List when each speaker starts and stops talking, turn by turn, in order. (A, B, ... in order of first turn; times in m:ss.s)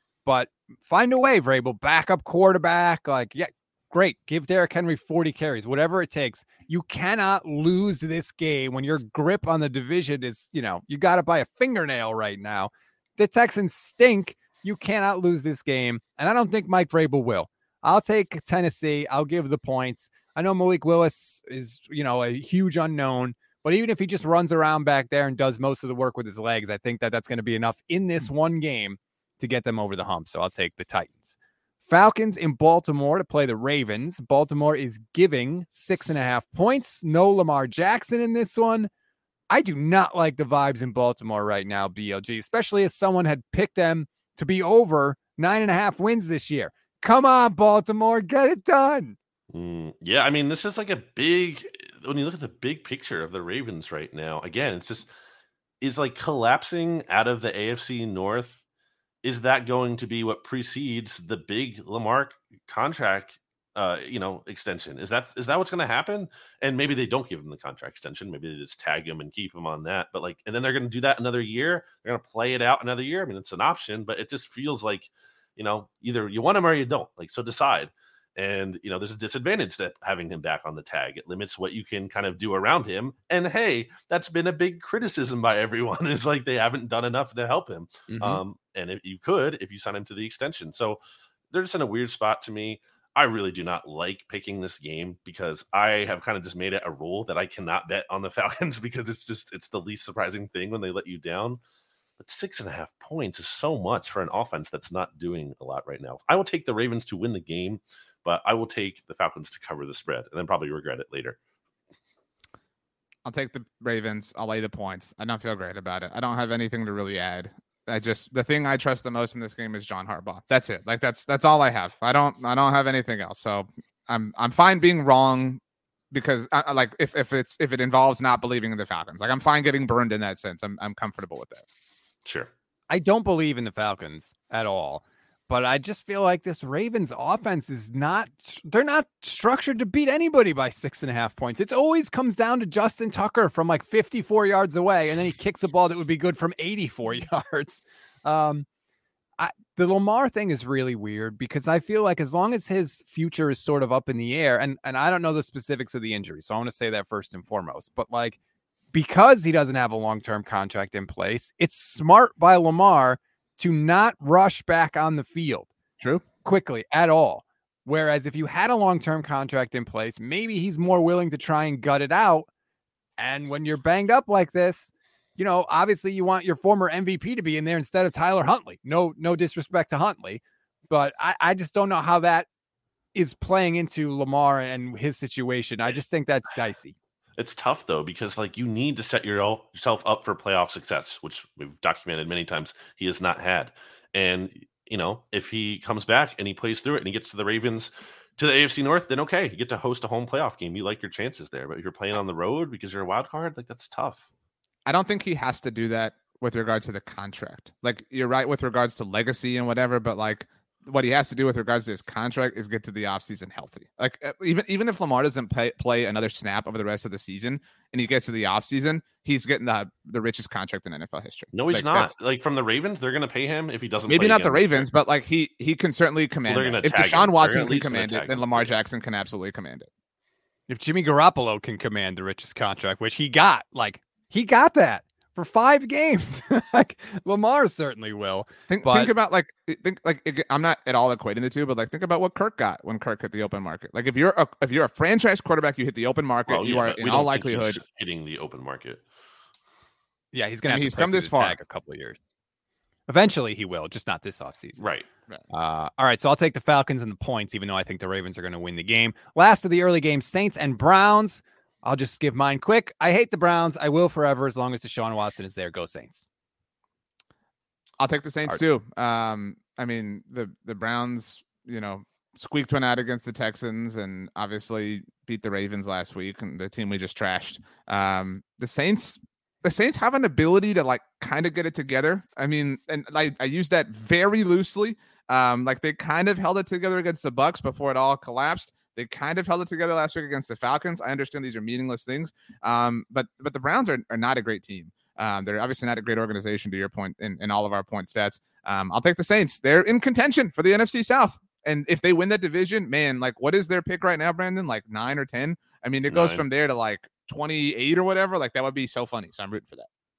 0:00.2-0:31.3 A
0:31.9-0:38.9 A
0:39.5-0:49.2 A
0:49.5-0:55.1 B
0:55.8-0:58.6 B
0:59.2-1:31.0 B
1:28.1-1:28.4 A
1:31.5-1:41.6 B
1:42.2-1:51.4 B
1:53.2-2:05.6 C
2:06.1-2:11.6 C
2:12.2-2:12.5 B
2:12.9-2:28.6 A
2:29.4-2:38.4 A
2:38.9-2:45.7 A
2:46.4-2:52.5 A
2:53.2-3:02.5 A
3:03.1-3:06.9 A
3:07.4-3:24.2 B
3:24.8-3:42.1 C
3:41.5-3:44.9 B
3:44.1-3:49.9 C
3:46.4-3:48.7 B
3:50.7-3:59.1 A
3:58.7-4:07.8 C
4:06.5-4:09.0 B
4:10.3-4:12.2 A
4:10.7-4:11.6 C
4:13.1-4:14.8 A
4:14.8-4:15.0 B
4:15.5-4:26.2 A
4:28.0-5:09.9 C
5:06.1-5:06.4 B